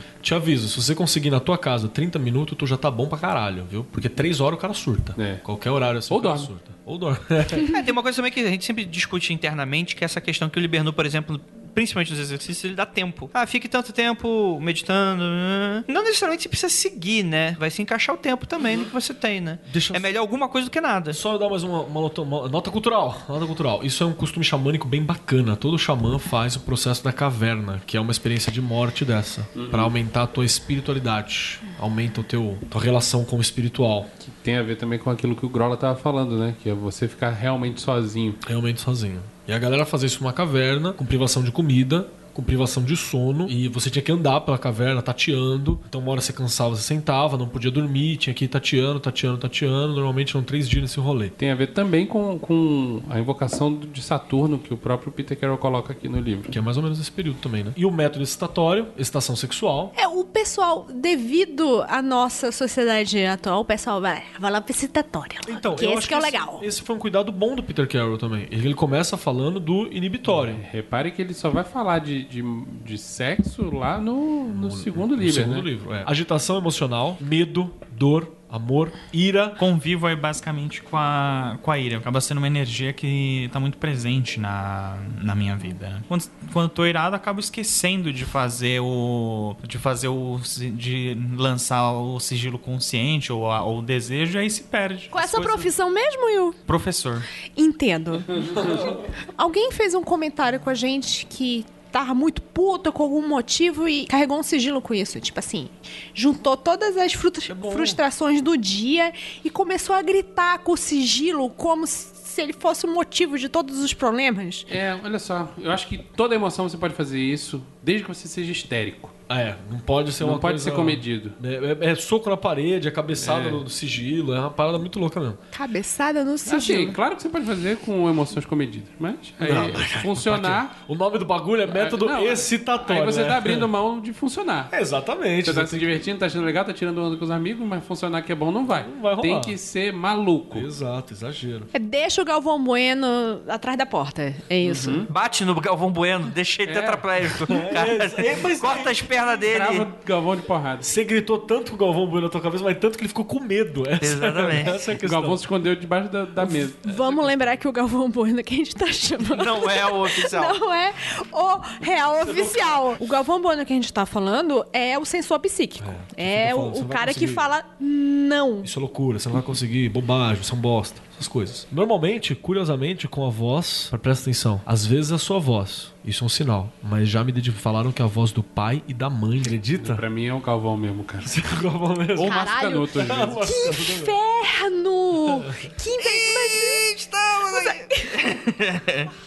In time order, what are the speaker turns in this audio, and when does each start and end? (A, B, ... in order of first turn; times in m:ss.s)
0:00.2-0:07.7 A
0:05.2-0:05.4 B
0:06.1-0:06.5 B
0:07.6-0:21.2 C
0:19.7-0:20.1 A
0:21.1-0:34.1 A
0:29.5-0:29.9 B
0:34.2-0:38.4 B
0:38.4-0:51.3 A
0:51.4-0:56.5 B
0:56.5-0:59.9 A
0:59.9-1:06.6 D
1:05.4-1:10.6 A
1:10.2-1:15.7 B
1:14.5-1:19.6 A
1:19.6-1:35.7 E
1:35.1-1:36.6 D
1:36.7-1:37.3 E
1:37.6-1:54.7 D
1:38.6-1:38.9 A
1:47.5-1:48.0 A
1:54.7-1:59.1 B
1:59.3-2:05.4 A
2:00.2-2:01.4 B
2:03.2-2:03.6 B
2:05.5-2:07.0 D
2:06.4-2:10.8 B
2:09.4-2:13.7 A
2:11.7-2:14.7 B
2:14.7-2:16.0 A
2:15.4-2:20.7 B
2:18.7-2:19.6 A
2:20.5-2:21.7 A
2:21.7-2:25.0 D
2:24.6-2:25.1 B
2:25.1-2:29.9 C
2:26.6-2:27.1 B
2:27.4-2:29.0 A
2:29.2-2:30.9 B
2:30.8-2:35.4 A
2:34.0-2:34.7 C
2:34.8-2:37.6 B
2:36.4-2:48.7 D
2:39.2-2:40.6 C
2:42.1-2:42.9 A
2:45.8-2:47.5 A
2:48.6-3:00.0 A
2:59.7-3:01.4 B
3:01.2-3:04.2 A
3:02.1-3:03.4 B
3:02.2-3:06.9 D
3:05.3-3:05.7 A
3:06.0-3:09.1 C
3:07.4-3:08.3 D